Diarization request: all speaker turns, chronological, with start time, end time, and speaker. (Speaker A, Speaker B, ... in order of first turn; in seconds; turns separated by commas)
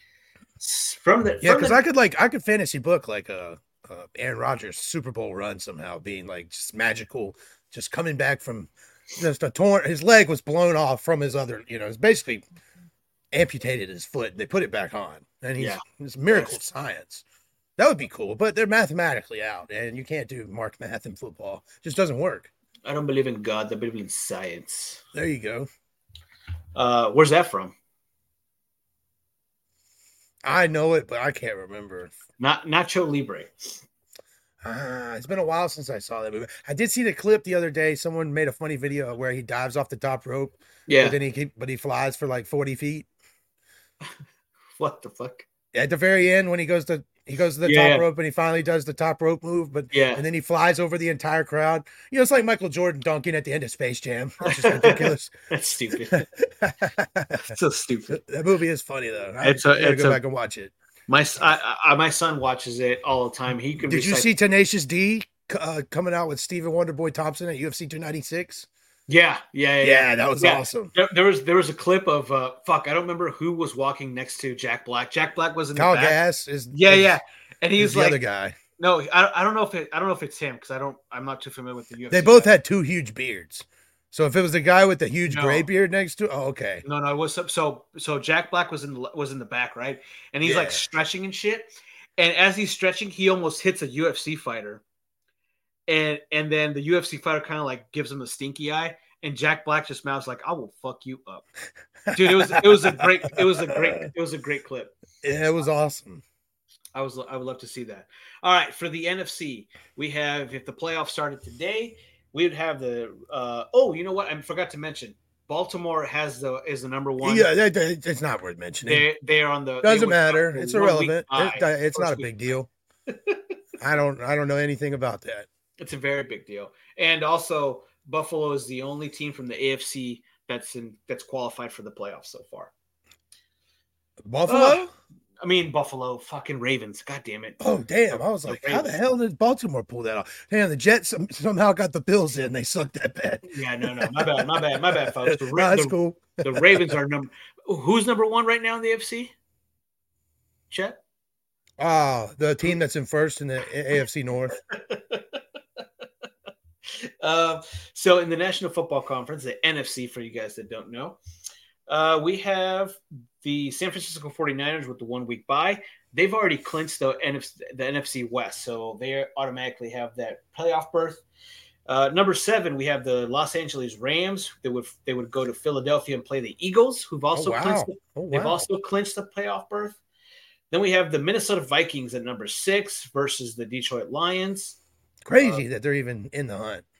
Speaker A: 0.6-1.8, Speaker B: 1.4-12.4, Speaker B: 13.3-17.2, Speaker A: 15.6-16.6, Speaker B: 17.8-22.5, Speaker A: 22.8-25.0, Speaker B: 25.1-25.7, Speaker A: 26.7-27.7, Speaker B: 30.4-32.1, Speaker A: 32.4-33.8, Speaker B: 34.6-43.1, Speaker A: 40.9-41.2, Speaker A: 44.8-45.5, Speaker B: 45.7-55.3, Speaker A: 47.6-48.0, Speaker A: 49.9-50.2, Speaker A: 54.4-56.3, Speaker B: 56.1-57.5, Speaker A: 57.4-58.2, Speaker B: 58.1-60.7, Speaker A: 59.4-60.2, Speaker A: 61.1-64.3, Speaker B: 63.8-68.7, Speaker A: 69.1-78.2, Speaker B: 69.8-70.9, Speaker B: 75.7-77.2, Speaker B: 77.8-78.6, Speaker A: 78.8-82.5, Speaker B: 82.1-86.8, Speaker A: 85.3-85.7, Speaker A: 86.8-94.8, Speaker B: 90.4-90.8, Speaker A: 95.9-101.5, Speaker B: 102.1-104.0, Speaker A: 102.1-105.0, Speaker B: 105.2-106.2, Speaker A: 106.9-117.5, Speaker B: 117.2-119.1, Speaker A: 118.8-122.3, Speaker B: 119.8-122.7, Speaker A: 123.1-123.5, Speaker B: 123.8-125.5, Speaker A: 125.8-132.7, Speaker B: 134.2-134.9, Speaker A: 134.4-134.8, Speaker A: 135.4-139.0, Speaker B: 137.6-147.0, Speaker A: 143.4-149.3, Speaker A: 150.7-151.0, Speaker B: 151.8-154.6, Speaker A: 154.7-155.4, Speaker A: 156.8-161.2, Speaker A: 161.9-171.2, Speaker A: 171.9-180.0, Speaker B: 177.3-178.7, Speaker A: 180.7-184.8, Speaker B: 185.2-186.8